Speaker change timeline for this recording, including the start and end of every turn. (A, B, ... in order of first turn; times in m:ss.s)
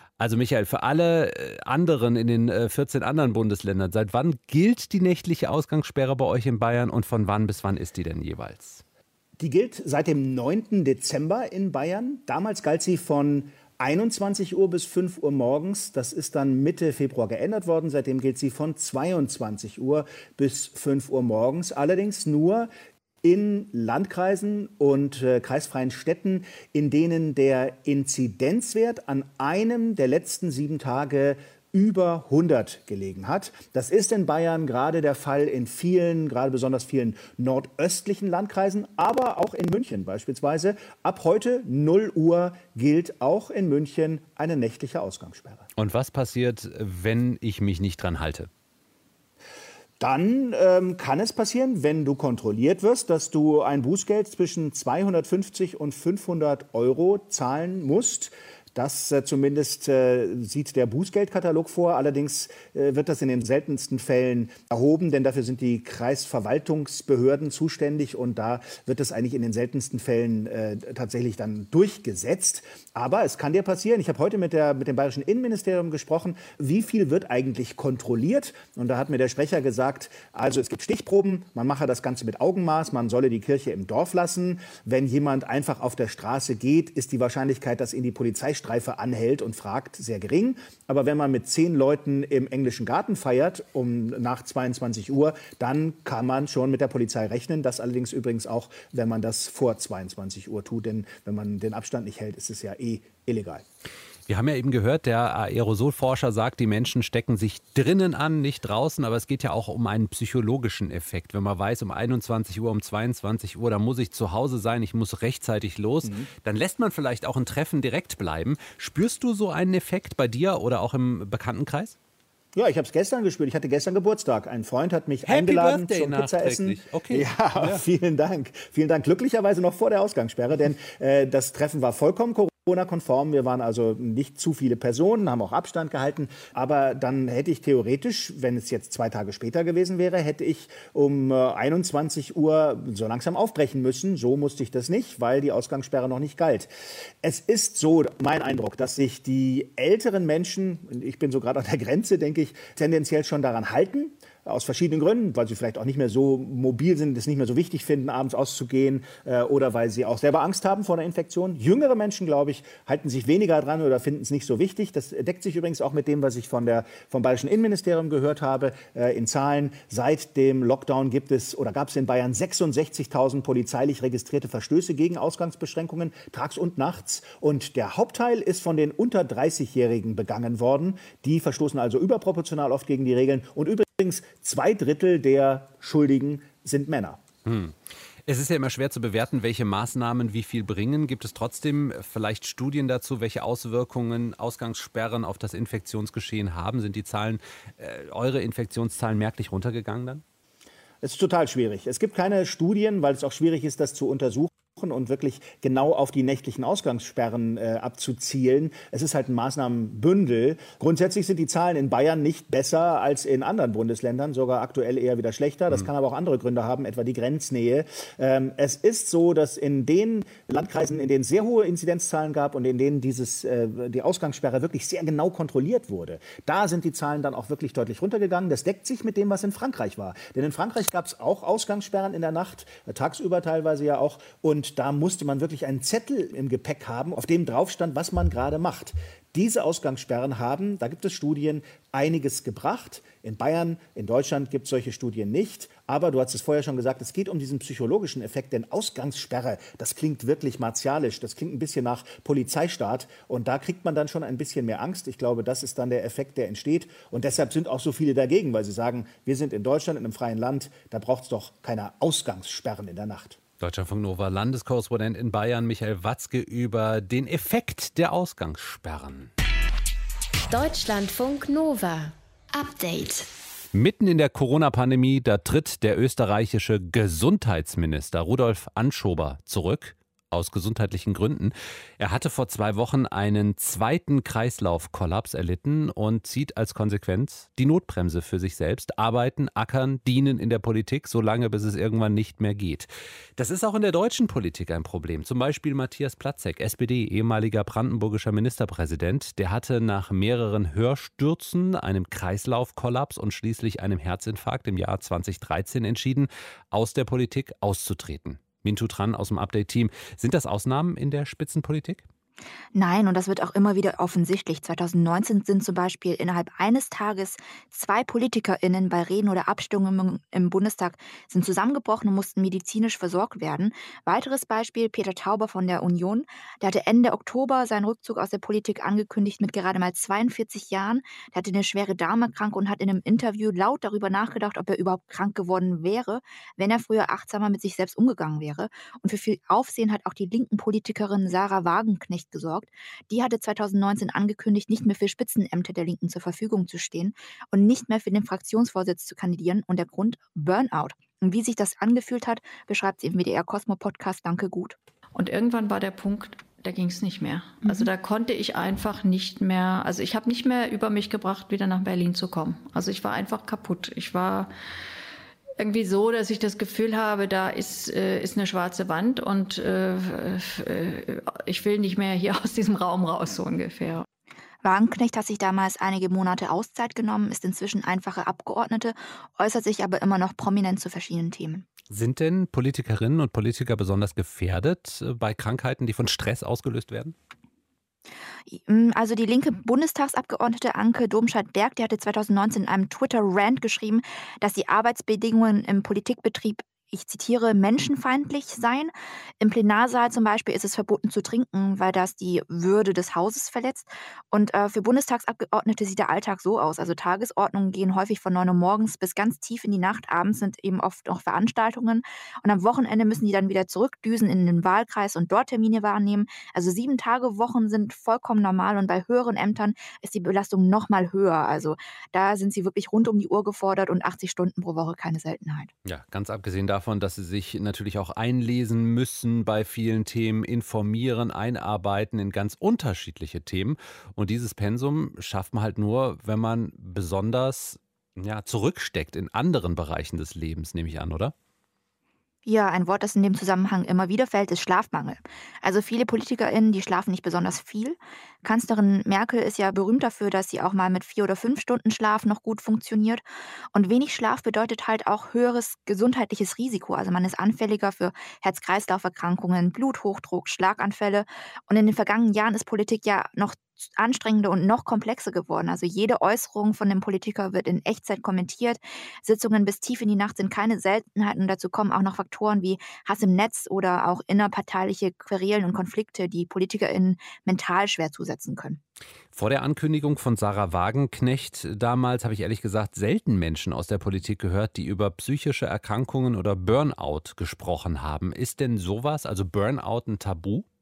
0:00.2-0:08.8 A
0:09.4-0:22.7 B
0:23.2-0:45.7 B
0:45.8-0:48.5 A
0:50.0-1:43.6 B
1:44.3-2:02.0 A
2:02.6-2:26.7 B
2:05.2-2:07.8 A
2:27.2-3:07.2 B
3:07.4-3:20.2 A
3:21.0-4:23.4 B
4:23.6-4:29.3 A
4:30.5-4:33.3 C
4:33.7-5:12.0 A
5:12.8-5:54.8 D
5:55.2-6:04.5 E
6:05.6-6:14.0 E
6:14.6-6:21.6 D
6:21.9-6:27.2 A
6:28.5-7:05.7 D
7:05.8-7:21.3 A
7:22.5-7:33.2 D
7:33.7-7:58.8 D
7:59.3-8:10.6 A